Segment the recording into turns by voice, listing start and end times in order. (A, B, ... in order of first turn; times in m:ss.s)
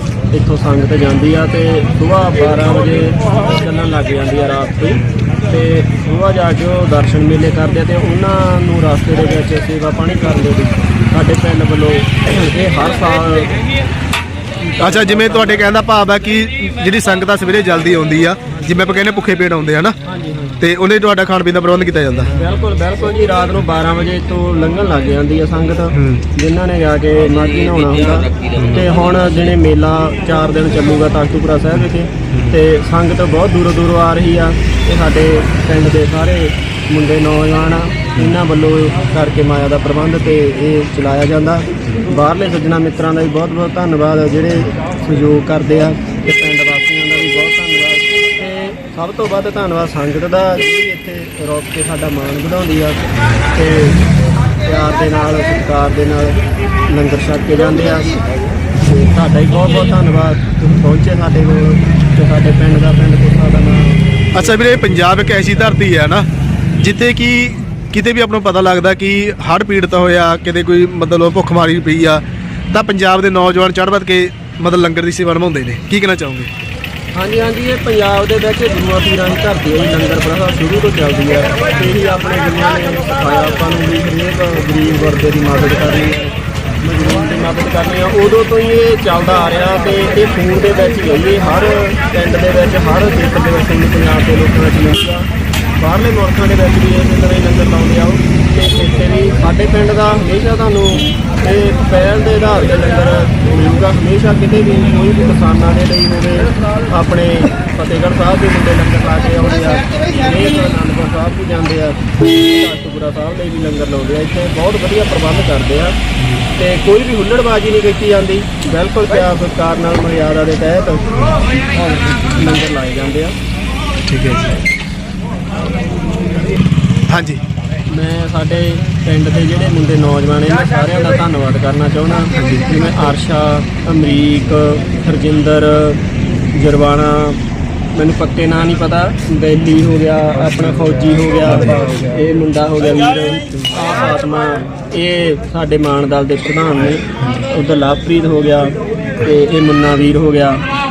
0:00.3-0:13.6 A
0:14.6-0:15.6 A
0:14.8-0:20.0 B
0:20.0-0:20.6 A
0:20.6-0:22.3 B
0:22.3-0:53.0 A
0:25.9-0:26.2 B
0:28.6-0:28.8 B
0:53.5-0:54.0 A
0:54.6-0:58.2 A
0:58.8-1:04.2 A
1:04.3-1:06.2 B
1:06.8-1:16.5 B
1:17.1-1:35.3 A
1:35.8-1:56.0 A
1:56.6-2:03.4 A
2:04.1-2:04.6 B
2:07.1-2:07.4 B
2:07.9-2:17.4 A
2:12.3-2:12.7 B
2:17.9-2:30.6 A